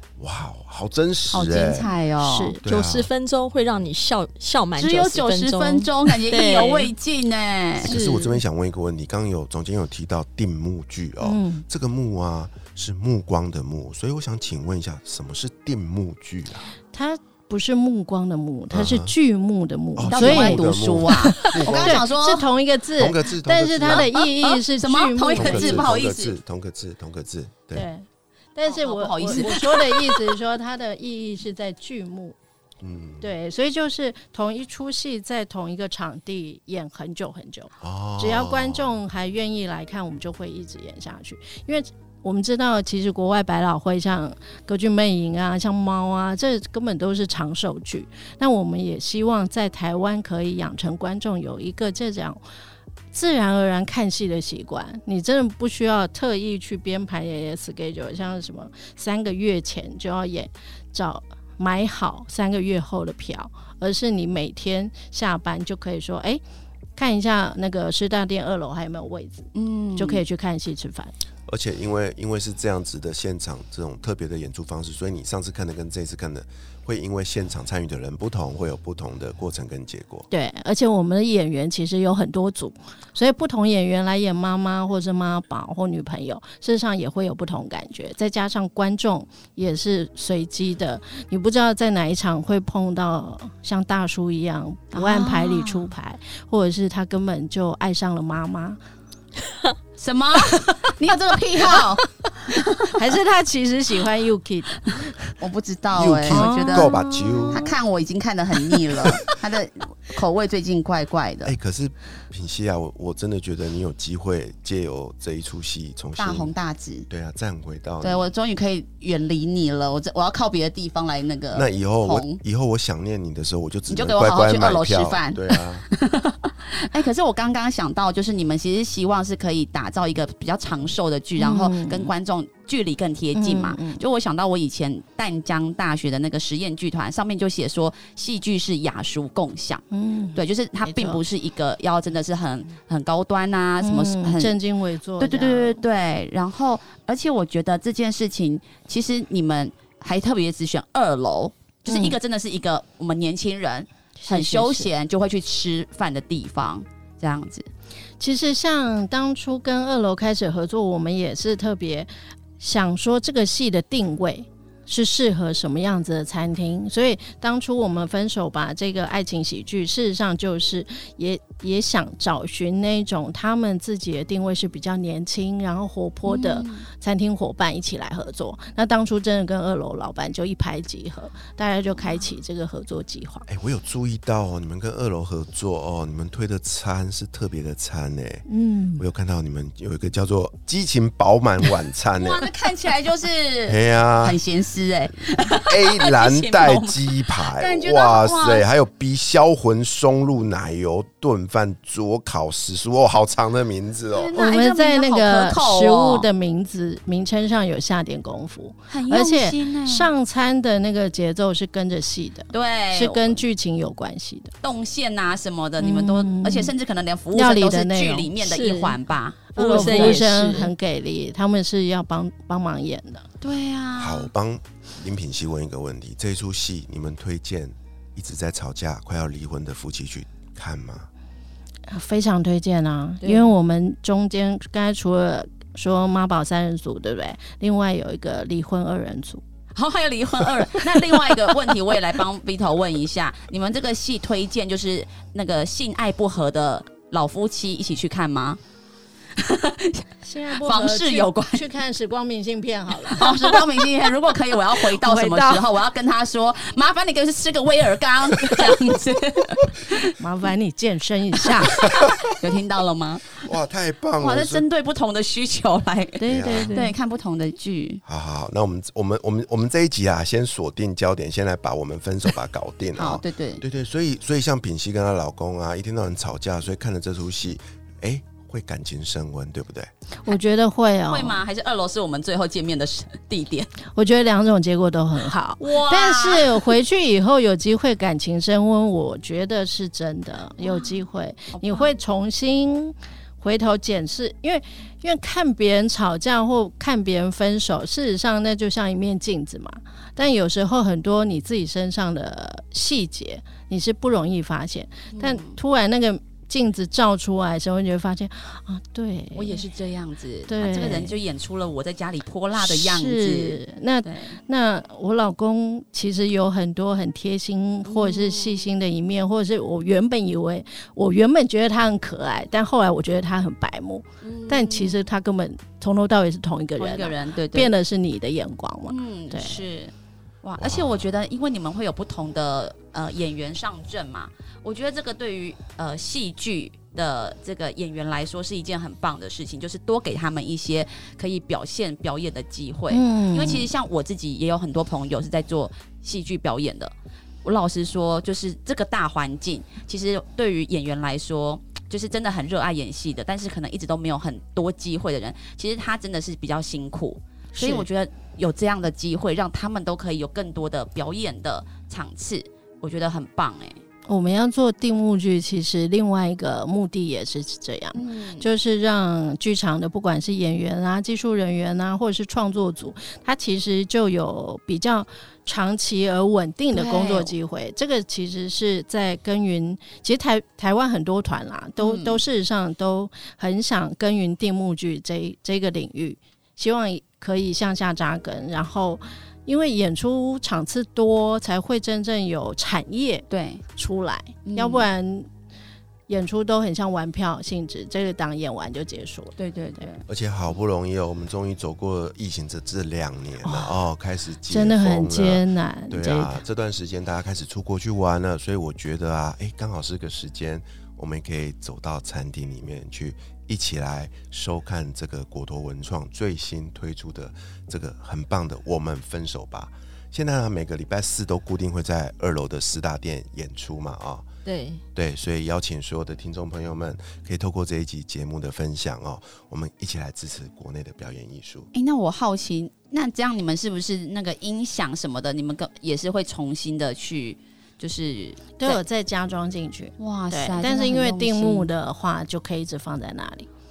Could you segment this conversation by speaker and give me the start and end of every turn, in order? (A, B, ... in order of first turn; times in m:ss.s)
0:00.2-0:01.9 A
0:01.3-0:02.6 B
0:02.2-0:02.6 C
0:02.6-0:03.1 A
0:02.7-0:06.9 D
0:04.8-0:07.9 B
0:07.8-0:08.4 D
0:07.8-0:16.7 A
0:11.2-0:11.6 C
0:16.9-0:25.9 C
0:18.7-0:19.2 A
0:20.0-0:22.1 A
0:20.1-0:22.5 B
0:23.0-0:24.1 A
0:23.9-0:26.4 B
0:25.4-0:27.9 A
0:27.7-0:32.4 C
0:28.7-0:30.1 B
0:32.8-0:33.3 A
0:33.2-0:52.4 C
0:37.8-0:39.0 A
0:53.1-1:06.4 C
1:07.0-1:11.1 C
1:09.6-1:10.2 B
1:11.5-1:20.3 A
1:20.3-1:38.8 C
1:34.9-1:35.9 B
1:40.0-1:42.0 B
1:42.6-1:42.9 B
1:42.9-1:45.3 C
1:45.4-1:47.0 B
1:45.9-1:47.7 A
1:46.3-1:47.7 C
1:47.5-1:51.6 B
1:51.4-1:56.5 A
1:56.2-1:57.1 B
1:57.1-1:58.3 A
1:58.0-2:02.4 B
2:01.5-2:05.9 A
2:03.9-2:24.6 B
2:11.4-2:12.1 C
2:13.4-2:14.0 C
2:19.9-2:21.2 C
2:23.8-2:25.8 C
2:25.2-2:37.7 B
2:31.9-2:32.2 C
2:34.2-2:34.9 C
2:38.2-3:03.5 C
2:56.3-2:56.8 B
3:03.5-3:08.4 A
3:08.5-3:09.0 C
3:09.0-3:12.5 A
3:12.2-3:18.6 B
3:13.7-3:14.4 A
3:15.6-3:24.4 A
3:24.1-3:26.3 B
3:24.3-3:34.5 C
3:28.9-3:30.1 B
3:32.5-3:33.4 B
3:34.6-3:40.3 B
3:35.8-3:36.7 C
3:37.3-3:38.3 C
3:38.4-3:39.0 D
3:39.6-3:43.3 C
3:39.6-3:40.7 D
3:43.4-3:44.3 B
3:44.0-3:51.1 A
3:51.9-3:59.4 C
3:59.8-4:08.6 B
4:00.8-4:01.5 C
4:09.4-4:11.7 B
4:10.2-4:13.6 C
4:13.2-4:20.1 B
4:14.8-4:15.7 C
4:20.2-4:21.9 C
4:22.3-4:23.5 B
4:23.4-4:24.6 A
4:24.2-4:28.0 B
4:26.2-4:26.9 C
4:26.2-4:26.7 A
4:28.0-4:39.9 A
4:33.0-4:33.6 B
4:40.3-4:41.4 C
4:41.0-4:43.7 B
4:44.0-5:09.6 C
4:45.6-4:46.7 B
4:50.6-4:51.0 B
4:51.5-4:51.9 B
5:05.1-5:05.6 B
5:09.3-5:14.4 B
5:10.5-5:11.2 C
5:12.6-5:29.6 C
5:17.8-5:18.7 B
5:24.2-5:25.0 B
5:26.8-5:27.7 B
5:28.9-5:46.9 B
5:30.6-5:31.0 A
5:42.9-5:43.7 C
5:47.4-6:03.8 B
5:57.6-5:57.9 C
6:04.1-6:35.3 C
6:07.9-6:08.5 B
6:16.7-6:17.3 B
6:21.8-6:22.2 B
6:33.3-6:33.6 B
6:34.5-6:34.9 B
6:36.1-6:39.4 C
6:39.4-6:40.0 B
6:40.1-7:04.3 A
6:43.4-6:43.7 C
6:44.5-6:46.4 C
7:04.4-7:04.8 D
7:05.0-7:11.7 A
7:11.7-7:18.8 B
7:18.6-7:23.5 C
7:20.0-7:21.7 B